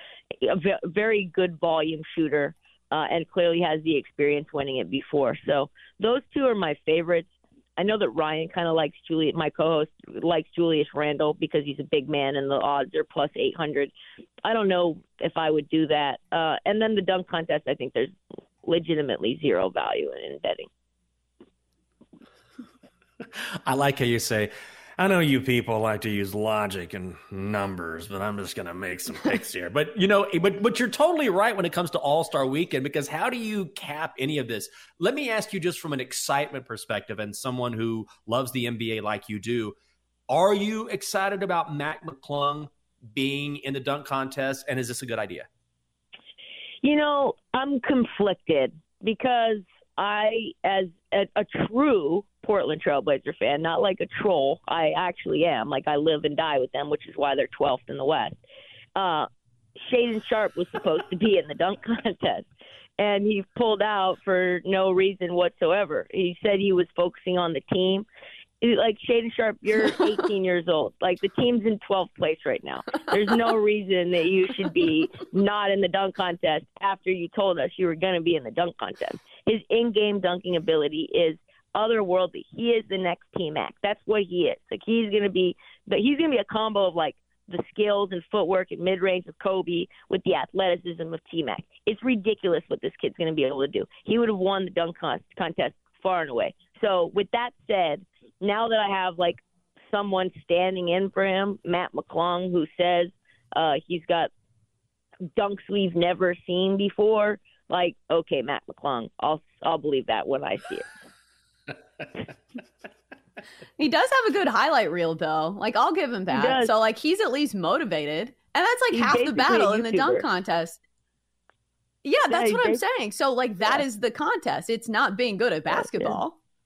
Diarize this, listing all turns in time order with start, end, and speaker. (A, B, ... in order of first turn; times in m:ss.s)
0:00.4-0:13.9 A
0:14.4-0:20.7 A
0:23.6-0:39.8 B
0:40.3-0:45.5 B
0:46.8-0:58.4 A
0:58.9-0:59.3 A
0:59.8-1:02.4 A
1:03.0-1:08.0 A
1:08.6-1:44.3 A
1:45.3-1:50.9 A
1:53.8-2:00.8 C
1:56.3-1:56.7 A
1:58.9-2:00.2 A
2:02.0-2:06.4 C
2:02.3-2:02.8 A
2:05.7-2:06.2 A